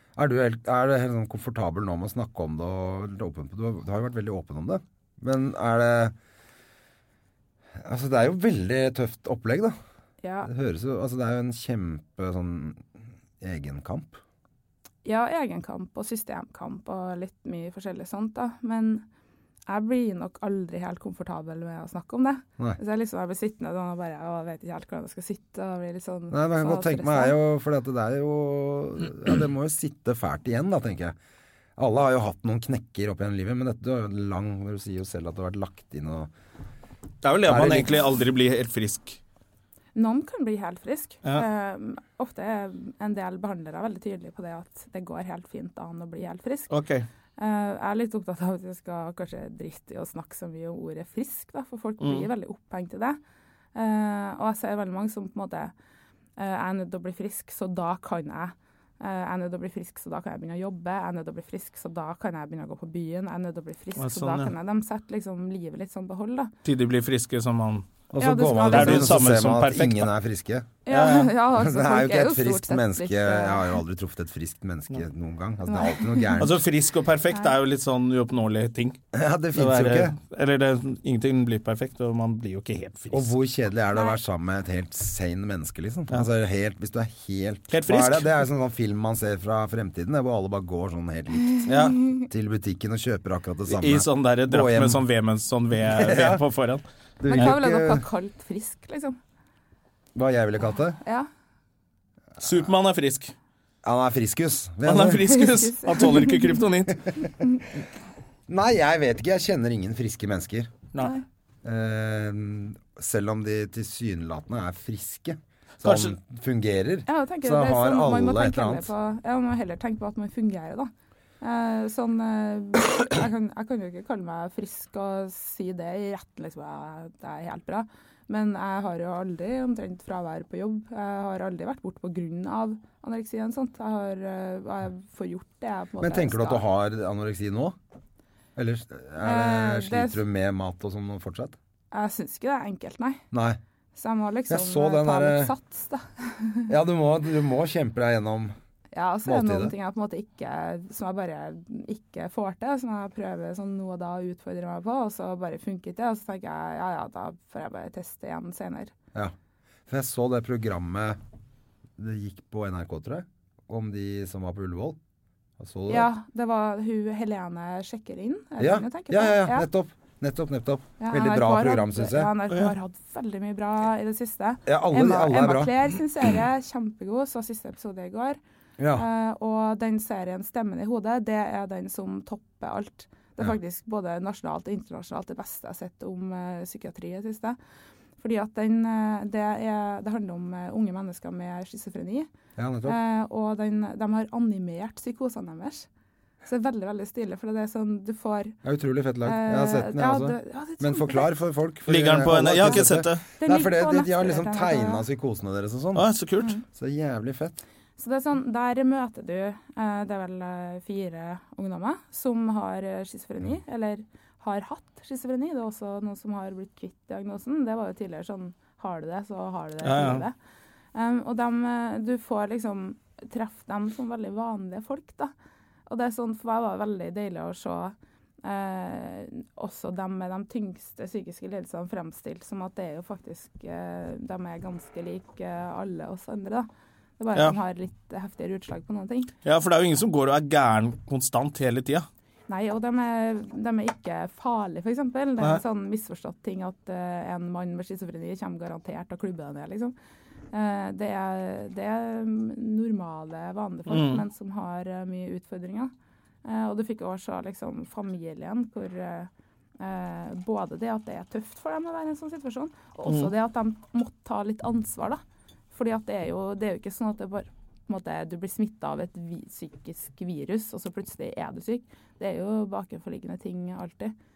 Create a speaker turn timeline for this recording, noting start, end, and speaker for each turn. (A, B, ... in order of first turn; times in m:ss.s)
0:00.2-0:06.1 A
0:07.8-0:09.8 A
0:10.2-0:10.5 B
0:10.4-0:12.9 A
0:13.4-0:14.2 A
0:15.0-0:19.0 B
0:19.7-0:27.4 B
0:26.3-0:31.2 A
0:31.8-0:36.3 A
0:37.2-0:39.2 C
0:37.4-0:38.0 A
0:40.0-0:46.7 B
0:46.7-0:47.1 C
0:47.4-0:53.2 B
0:52.0-0:52.3 C
0:53.8-0:55.7 B
0:56.4-1:06.5 B
1:04.0-1:04.5 C
1:06.6-1:07.9 C
1:08.1-1:10.8 A
1:08.2-1:09.2 B
1:08.7-1:10.1 C
1:10.9-1:13.8 B
1:10.9-1:11.3 C
1:11.5-1:16.6 A
1:15.7-1:16.5 B
1:16.4-1:19.0 C
1:19.1-1:20.2 A
1:19.6-1:23.3 C
1:23.1-1:35.0 A
1:27.7-1:28.3 C
1:31.5-1:32.2 B
1:31.6-1:32.0 C
1:33.7-1:36.8 C
1:35.8-1:36.4 A
1:37.2-1:38.1 A
1:37.3-1:39.2 B
1:40.2-1:41.0 A
1:41.0-1:41.3 B
1:42.4-1:43.3 C
1:43.8-1:45.4 A
1:44.8-1:47.1 C
1:45.3-1:46.6 B
1:48.5-1:50.8 A
1:51.0-1:51.2 B
1:51.6-1:58.9 A
1:55.8-1:56.2 C
1:57.1-2:16.6 B
2:16.0-2:17.8 A
2:18.6-2:21.6 A
2:19.2-2:20.2 B
2:21.9-2:23.2 B
2:23.3-2:23.6 A
2:24.0-2:26.7 B
2:24.5-2:25.5 A
2:26.7-2:28.6 A
2:28.9-2:39.0 B
2:29.2-2:29.7 A
2:39.9-2:41.2 A
2:42.0-2:45.0 A
2:45.6-2:46.1 A
2:45.9-2:49.7 B
2:48.6-2:52.3 A
2:51.0-2:58.4 B
2:54.7-2:55.9 A
2:58.8-2:59.1 A
2:58.9-3:07.6 B
3:08.2-3:12.3 B
3:12.6-3:13.0 A
3:12.8-3:15.9 B
3:16.4-3:18.6 B
3:18.6-3:26.0 A
3:19.2-3:21.3 B
3:21.9-3:23.3 C
3:23.4-3:25.0 B
3:26.0-3:26.6 C
3:26.6-3:27.6 A
3:28.0-3:40.4 B
3:39.8-3:40.2 C
3:41.0-3:45.3 B
3:45.9-3:56.7 B
3:57.2-3:59.3 B
3:59.4-4:02.1 C
4:02.5-4:10.0 B
4:10.5-4:15.9 B
4:13.9-4:14.2 C
4:16.4-4:25.2 B
4:25.7-4:34.1 B